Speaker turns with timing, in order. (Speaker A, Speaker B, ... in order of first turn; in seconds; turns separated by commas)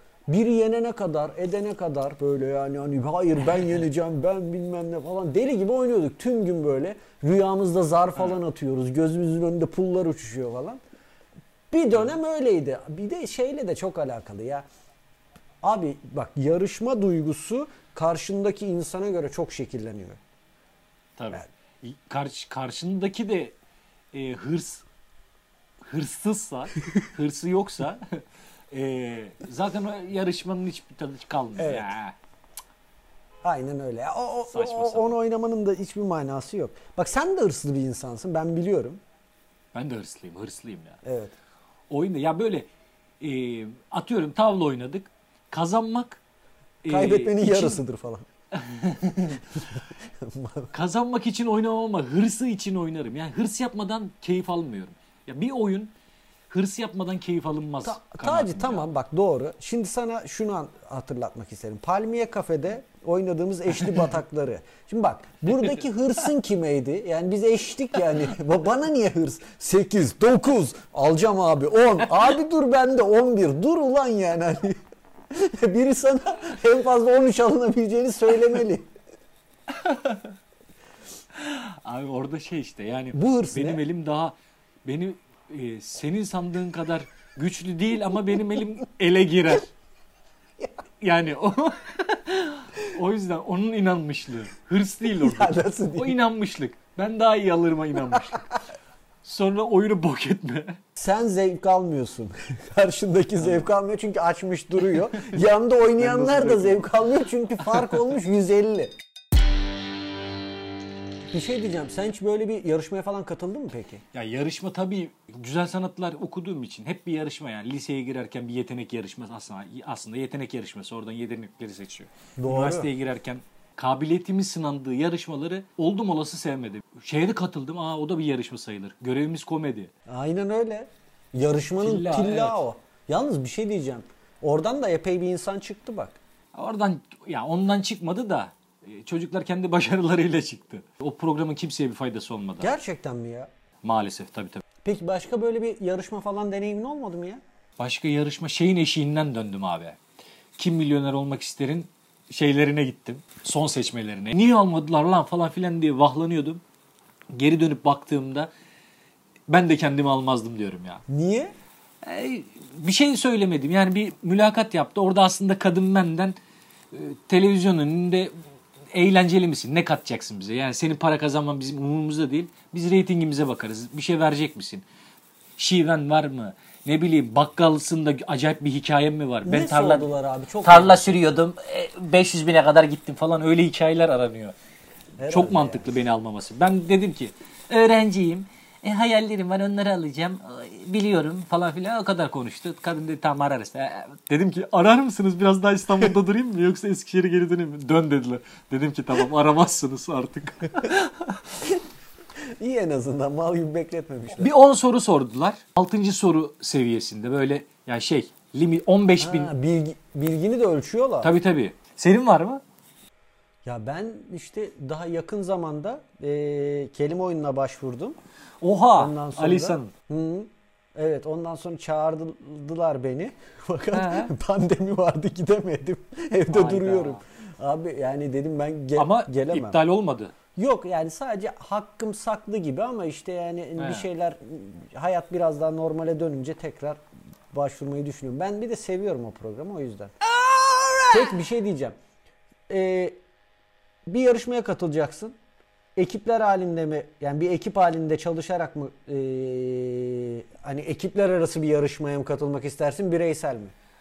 Speaker A: 0.3-10.8, Speaker A: 11.7-14.7, Speaker A: 15.6-20.2, Speaker B: 21.2-23.6, Speaker B: 24.1-24.9, Speaker B: 25.8-32.2, Speaker A: 31.6-31.9, Speaker A: 33.4-39.0, Speaker B: 34.5-35.2, Speaker B: 39.7-41.0, Speaker A: 41.0-41.3, Speaker B: 41.9-42.7, Speaker B: 43.2-46.2, Speaker B: 46.8-47.8, Speaker A: 46.9-48.3, Speaker B: 48.5-49.5, Speaker A: 50.2-50.7, Speaker B: 50.7-56.0, Speaker B: 56.5-58.9, Speaker A: 57.8-78.9, Speaker B: 79.7-80.3, Speaker B: 81.4-89.7, Speaker A: 83.1-83.8, Speaker B: 91.0-98.5, Speaker A: 95.1-96.2, Speaker B: 99.2-100.8, Speaker A: 101.0-109.0, Speaker B: 103.4-103.7, Speaker B: 106.0-106.9, Speaker A: 111.3-114.0, Speaker B: 114.1-129.9, Speaker A: 122.4-122.9, Speaker A: 130.1-136.2, Speaker B: 131.8-132.6, Speaker B: 136.5-142.7, Speaker A: 142.6-143.5, Speaker B: 143.8-144.6, Speaker A: 144.8-147.4, Speaker B: 147.8-150.0, Speaker B: 150.6-156.6, Speaker B: 157.3-158.5, Speaker B: 159.5-161.0, Speaker A: 161.1-161.6, Speaker B: 162.0-166.4, Speaker B: 166.9-168.3, Speaker B: 168.9-174.8, Speaker B: 175.6-180.1, Speaker A: 179.4-181.2, Speaker B: 180.6-184.6, Speaker A: 185.2-185.9, Speaker B: 185.3-201.1, Speaker A: 202.6-204.5, Speaker B: 204.4-209.5, Speaker A: 209.2-211.4, Speaker B: 211.2-212.6, Speaker A: 213.7-218.2, Speaker B: 218.6-219.9, Speaker A: 219.0-229.8, Speaker B: 223.9-224.3, Speaker B: 226.5-227.2, Speaker B: 229.0-230.3, Speaker A: 230.6-240.1, Speaker B: 233.8-234.1, Speaker B: 240.3-241.3, Speaker A: 241.1-242.0, Speaker A: 242.7-243.2, Speaker A: 244.1-245.4, Speaker A: 246.0-253.7